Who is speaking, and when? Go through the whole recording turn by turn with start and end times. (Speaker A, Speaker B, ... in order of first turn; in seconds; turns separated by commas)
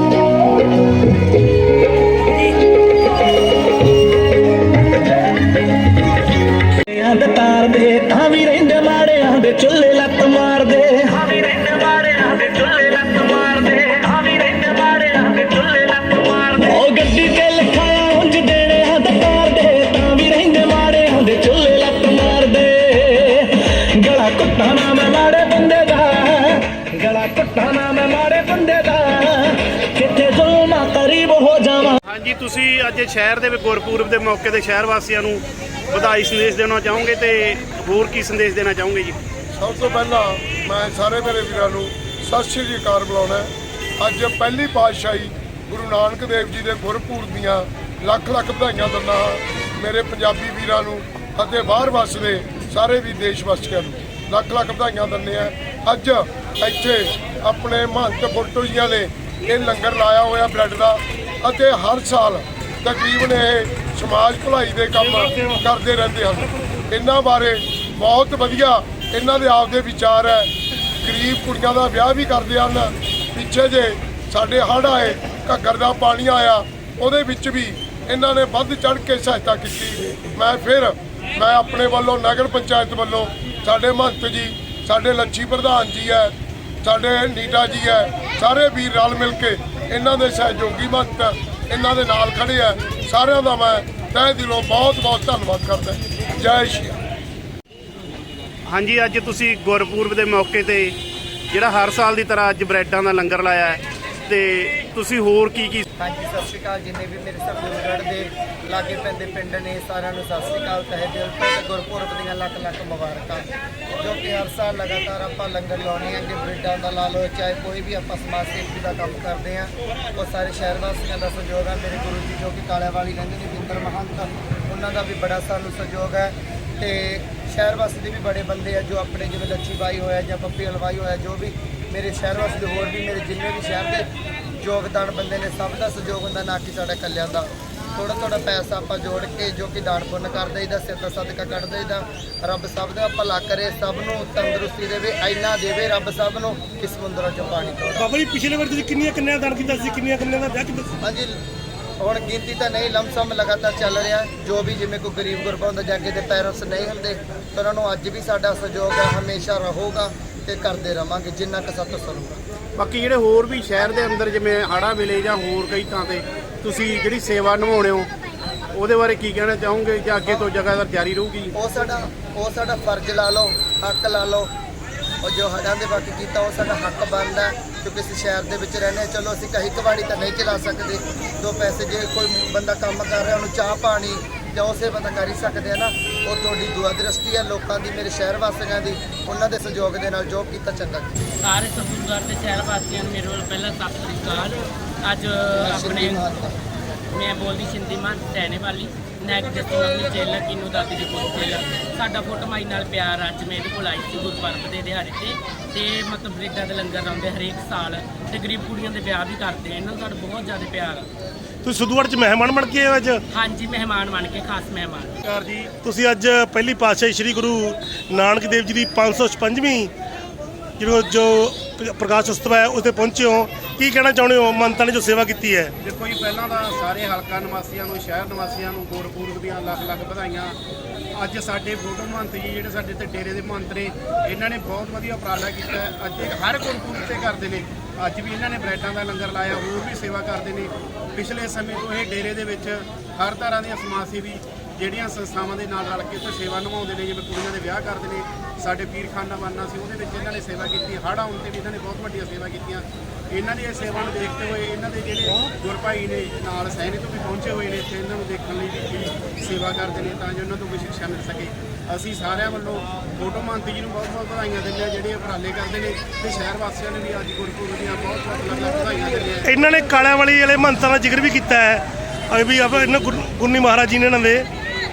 Speaker A: 6.7-32.0, Speaker B: 32.0-39.2, Speaker C: 39.5-97.0, Speaker D: 65.0-65.6, Speaker B: 98.7-101.0, Speaker B: 101.5-105.8, Speaker E: 106.0-113.5, Speaker E: 114.0-134.1, Speaker E: 134.6-148.1, Speaker D: 148.0-150.9, Speaker E: 151.0-151.4, Speaker E: 152.0-162.4, Speaker B: 162.8-168.1, Speaker B: 168.7-171.5, Speaker E: 171.5-174.5, Speaker E: 175.2-191.1, Speaker F: 191.4-196.2, Speaker E: 195.6-196.5, Speaker F: 197.1-211.1, Speaker D: 211.6-213.2, Speaker F: 213.3-215.2, Speaker B: 215.2-215.7, Speaker D: 215.8-219.9, Speaker D: 220.8-225.7, Speaker B: 225.8-230.6, Speaker B: 231.2-269.5, Speaker D: 269.4-274.4